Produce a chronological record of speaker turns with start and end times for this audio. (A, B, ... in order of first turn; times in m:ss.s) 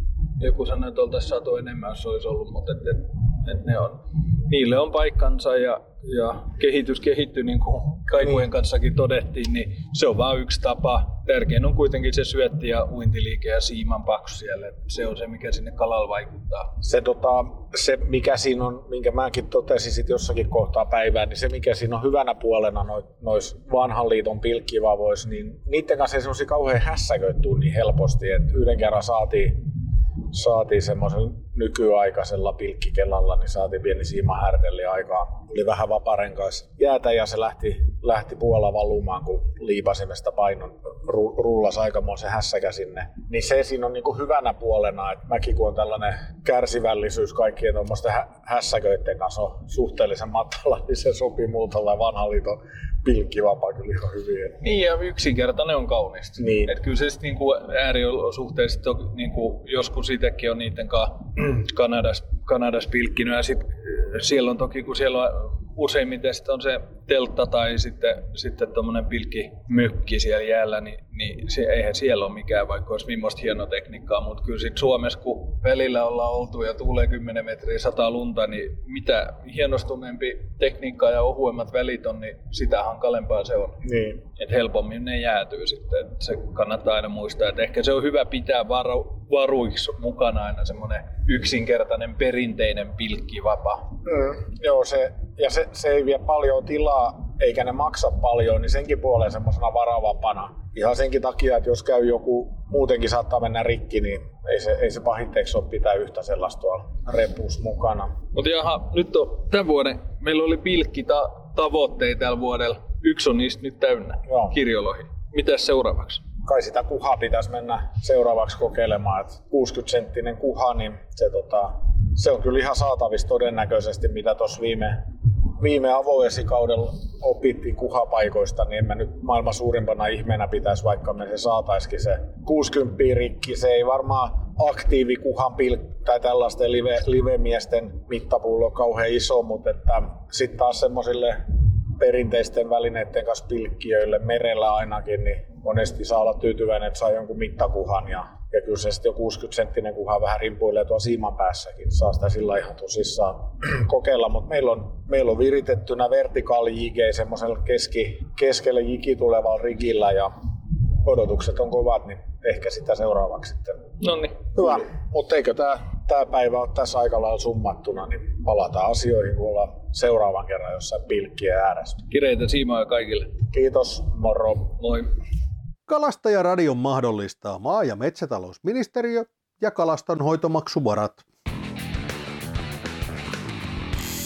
0:00.4-0:16.7 A
0:16.8-0:29.7 B
0:30.3-0:54.6 B
0:54.6-1:34.0 A
0:56.4-0:56.7 B
1:23.8-1:24.2 B
1:34.0-1:48.1 B
1:48.3-1:56.2 A
1:54.3-1:54.5 B
1:56.4-2:05.1 B
2:05.6-2:21.4 B
2:22.0-2:40.3 B
2:41.0-2:43.8 B
2:44.0-2:44.5 A
2:44.5-2:52.0 B
2:52.1-2:53.4 A
2:53.5-2:54.8 B
2:54.8-2:55.1 A
2:55.9-3:01.2 C